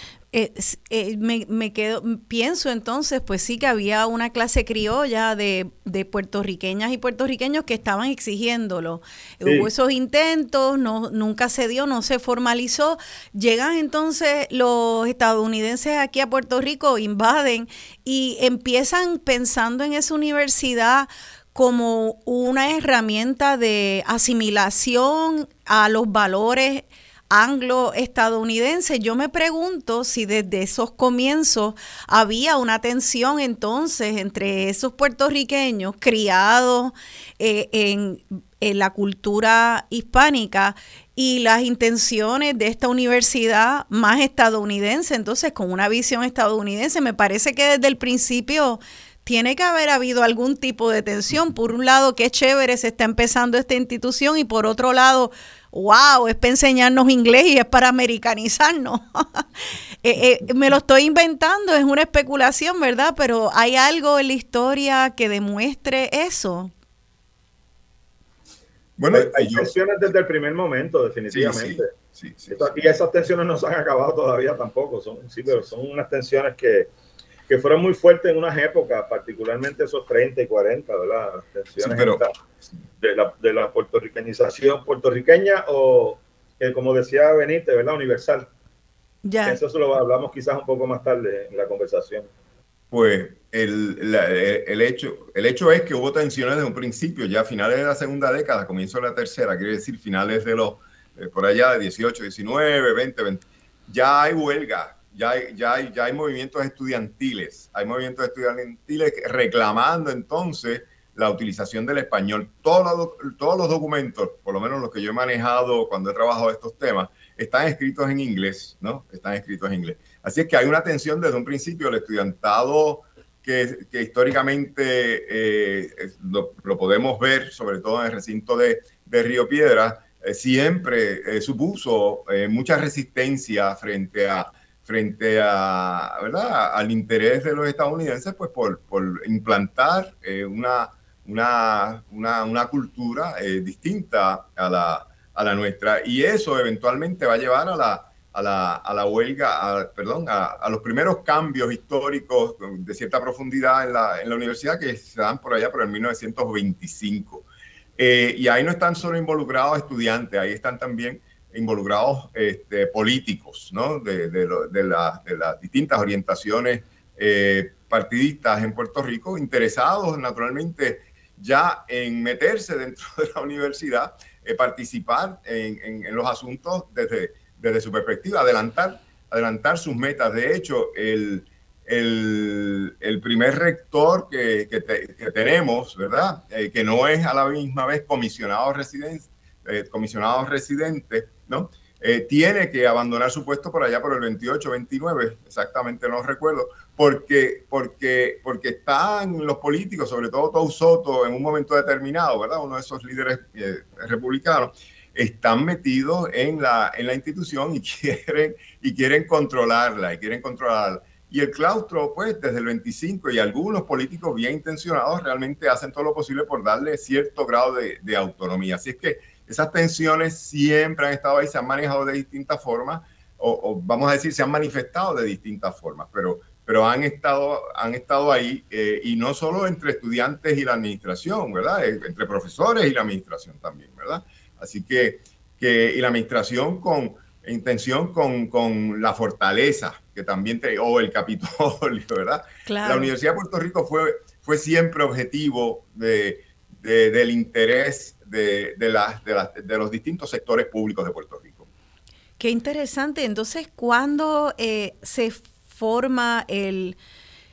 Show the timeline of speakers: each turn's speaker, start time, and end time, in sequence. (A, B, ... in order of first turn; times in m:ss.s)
0:00.3-0:59.4 A
0:09.4-0:09.7 B
1:00.0-1:06.7 A
1:09.0-1:09.7 C
1:09.1-1:11.9 B
1:11.3-1:12.9 C
1:12.5-1:16.9 B
1:17.5-1:22.3 B
1:21.8-1:22.2 C
1:23.0-1:28.5 B
1:29.2-1:29.6 A
1:29.4-1:32.3 B
1:32.9-2:37.4 C
2:38.0-4:11.7 C
4:02.7-4:03.1 A
4:12.4-4:17.0 A